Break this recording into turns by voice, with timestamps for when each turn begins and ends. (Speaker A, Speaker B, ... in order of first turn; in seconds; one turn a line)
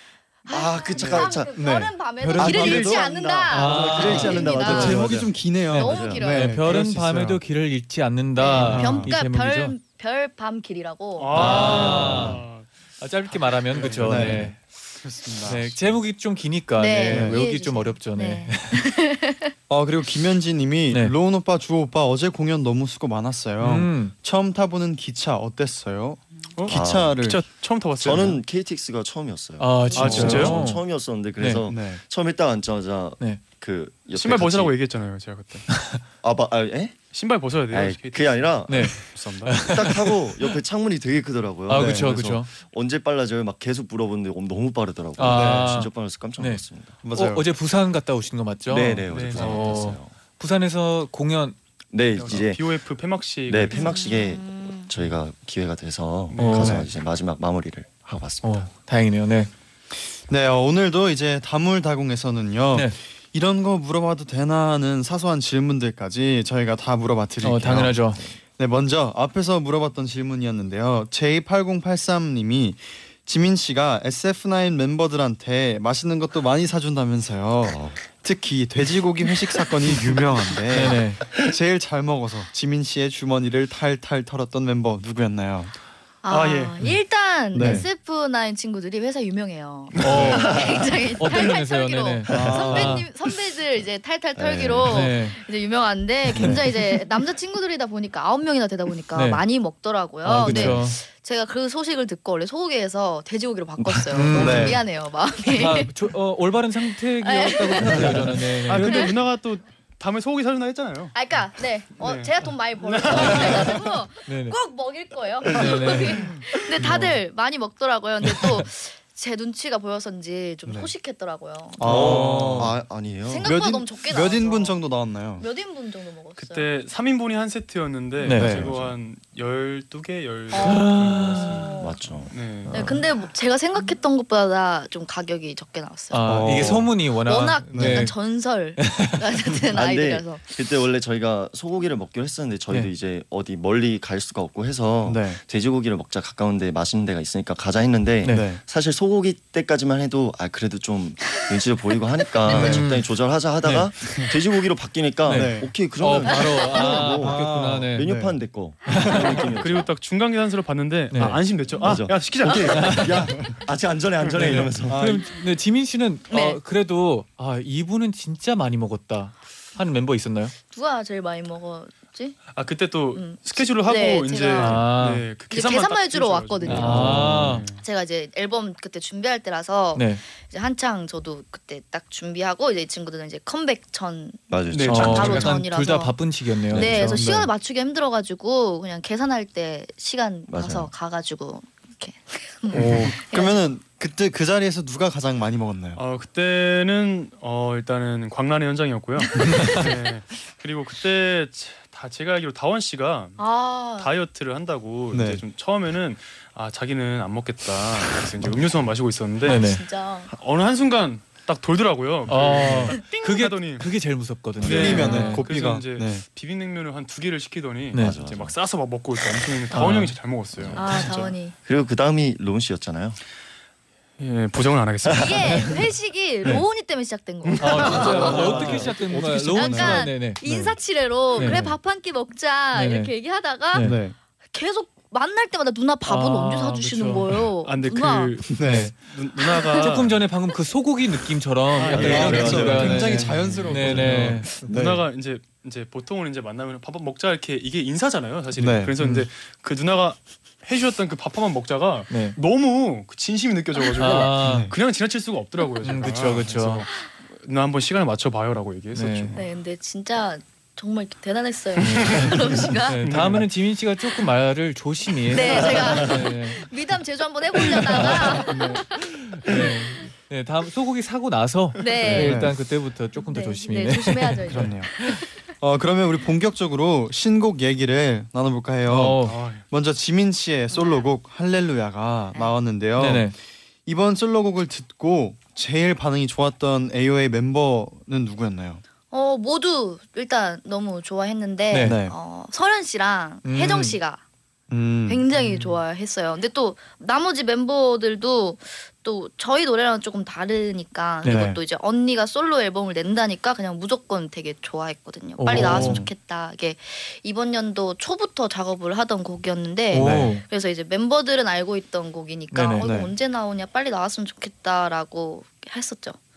Speaker A: 0.5-5.2
Speaker B: 0.5-1.5
Speaker C: 0.9-1.3
Speaker D: 1.5-3.1
Speaker B: 2.3-6.2
Speaker E: 3.5-5.0
Speaker D: 3.8-7.4
Speaker E: 5.7-9.7
Speaker A: 5.7-6.6
Speaker A: 8.4-12.1
Speaker D: 8.5-9.1
Speaker C: 11.2-12.7
Speaker E: 11.3-12.4
Speaker D: 11.6-12.3
Speaker E: 13.0-14.6
Speaker C: 13.3-14.5
Speaker D: 14.0-15.9
Speaker E: 15.4-18.8
Speaker A: 16.8-19.5
Speaker D: 17.1-17.4
Speaker D: 19.7-27.4
Speaker E: 23.6-24.1
Speaker C: 26.6-28.4
Speaker B: 26.7-27.2
Speaker B: 28.0-34.7
Speaker E: 29.6-30.8
Speaker A: 29.9-30.2
Speaker C: 29.9-30.6
Speaker E: 31.4-31.6
Speaker D: 31.7-32.0
Speaker C: 34.1-35.8
Speaker B: 36.2-37.0
Speaker C: 37.1-39.7
Speaker B: 37.7-47.0
Speaker E: 38.7-40.5
Speaker E: 41.7-42.5
Speaker D: 41.7-42.3
Speaker E: 45.2-51.6
Speaker D: 45.3-45.7
Speaker D: 47.0-47.5
Speaker B: 48.7-50.1
Speaker C: 49.1-49.7
Speaker B: 51.9-52.8
Speaker C: 52.1-54.0
Speaker B: 53.5-58.7
Speaker A: 53.7-54.8
Speaker C: 56.3-56.8
Speaker E: 56.4-56.8
Speaker D: 56.6-56.9
Speaker E: 58.4-59.5
Speaker D: 60.3-85.7
Speaker E: 67.4-68.2
Speaker B: 77.6-78.0
Speaker E: 80.7-81.2
Speaker A: 86.2-105.9
Speaker C: 86.3-86.8
Speaker D: 87.5-87.9
Speaker C: 90.0-90.3
Speaker E: 90.0-90.6
Speaker B: 90.2-91.0
Speaker E: 91.2-93.1
Speaker D: 92.3-93.0
Speaker B: 94.3-95.1
Speaker E: 94.9-95.4
Speaker D: 96.3-96.6
Speaker E: 99.1-99.4
Speaker E: 100.2-101.0
Speaker D: 100.4-100.8
Speaker E: 104.1-104.8
Speaker D: 104.3-104.8
Speaker E: 105.5-109.1
Speaker A: 107.2-109.2
Speaker C: 108.7-111.2
Speaker A: 111.1-122.0
Speaker C: 112.0-113.8
Speaker E: 113.1-113.7
Speaker E: 114.2-114.6
Speaker E: 115.5-117.2
Speaker E: 118.2-118.6
Speaker D: 120.7-120.9
Speaker D: 121.8-122.7
Speaker E: 121.8-122.7
Speaker B: 121.8-123.5
Speaker A: 123.2-124.8
Speaker D: 123.4-125.5
Speaker A: 125.4-126.7
Speaker C: 126.4-133.0
Speaker E: 128.2-128.6
Speaker D: 128.3-128.8
Speaker A: 130.5-132.0
Speaker E: 130.6-131.7
Speaker B: 131.8-132.3
Speaker E: 132.7-133.0
Speaker A: 132.7-140.4
Speaker E: 136.1-138.1
Speaker D: 136.2-136.9
Speaker D: 137.7-138.1
Speaker E: 138.8-139.2
Speaker B: 139.7-159.9
Speaker D: 145.0-145.4
Speaker D: 148.3-148.6
Speaker E: 152.4-153.1
Speaker D: 152.5-152.8
Speaker E: 153.6-153.9
Speaker D: 154.0-154.3
Speaker E: 155.2-158.1
Speaker D: 155.3-155.7
Speaker D: 157.2-159.3
Speaker E: 158.8-159.3
Speaker C: 159.3-163.6
Speaker E: 161.1-161.4
Speaker B: 161.7-165.0
Speaker E: 162.7-163.3
Speaker C: 164.2-164.6
Speaker E: 164.4-170.5
Speaker D: 164.8-165.3
Speaker A: 166.3-166.6
Speaker A: 170.7-172.5
Speaker C: 172.5-177.8
Speaker A: 173.1-174.9
Speaker E: 174.6-175.2
Speaker A: 175.5-193.6
Speaker E: 176.7-177.7
Speaker D: 176.9-177.5
Speaker E: 179.9-180.2
Speaker B: 184.5-185.5
Speaker C: 184.7-185.4
Speaker E: 184.8-187.2
Speaker B: 186.7-187.2
Speaker D: 187.1-187.5
Speaker B: 190.5-190.9
Speaker D: 192.7-196.0
Speaker C: 192.8-193.0
Speaker C: 195.9-209.6
Speaker E: 199.5-199.8
Speaker A: 203.4-204.1
Speaker D: 205.1-205.4
Speaker E: 209.4-209.8
Speaker A: 209.4-210.3
Speaker C: 210.3-213.9
Speaker E: 212.3-215.4
Speaker C: 214.6-221.3
Speaker B: 214.6-215.0
Speaker D: 214.6-216.2
Speaker A: 215.0-215.3
Speaker B: 218.0-218.5
Speaker E: 219.7-220.1
Speaker B: 220.6-221.1
Speaker A: 220.7-221.6
Speaker B: 221.6-223.2
Speaker C: 224.2-225.8
Speaker A: 225.2-229.0
Speaker C: 227.4-228.9
Speaker E: 227.6-230.4
Speaker D: 227.9-230.7
Speaker A: 229.5-238.4
Speaker E: 231.3-231.7
Speaker E: 232.7-233.1
Speaker E: 233.7-234.0
Speaker D: 233.8-234.1
Speaker E: 236.0-237.4
Speaker C: 237.6-240.2
Speaker D: 238.5-238.9
Speaker E: 238.6-238.9
Speaker A: 239.4-239.9
Speaker E: 239.8-244.8
Speaker C: 241.7-259.4
Speaker B: 241.9-243.2
Speaker D: 241.9-245.0
Speaker D: 248.6-249.0
Speaker E: 252.1-252.3
Speaker E: 254.0-254.7
Speaker D: 254.4-254.7
Speaker E: 255.8-256.9
Speaker E: 258.9-259.3
Speaker A: 259.4-263.2
Speaker C: 261.8-263.4
Speaker E: 261.8-266.6
Speaker A: 265.3-268.9
Speaker E: 267.6-275.2
Speaker D: 268.5-268.8
Speaker A: 269.4-269.7
Speaker A: 271.8-272.6
Speaker D: 272.1-272.5
Speaker A: 273.1-275.2
Speaker D: 274.5-274.9
Speaker D: 275.6-283.3
Speaker E: 278.9-279.4
Speaker C: 279.2-279.6
Speaker A: 280.7-281.0
Speaker E: 283.0-283.3
Speaker D: 283.9-288.8
Speaker A: 289.1-294.2
Speaker E: 291.7-292.0
Speaker D: 291.8-292.1
Speaker E: 293.4-294.0
Speaker D: 294.7-295.2
Speaker A: 295.1-316.2
Speaker C: 295.3-295.8
Speaker E: 301.2-301.5
Speaker D: 301.2-301.6
Speaker E: 305.4-306.0
Speaker D: 305.5-306.1
Speaker E: 309.9-310.4
Speaker D: 309.9-310.3
Speaker E: 312.5-312.9
Speaker D: 312.8-313.1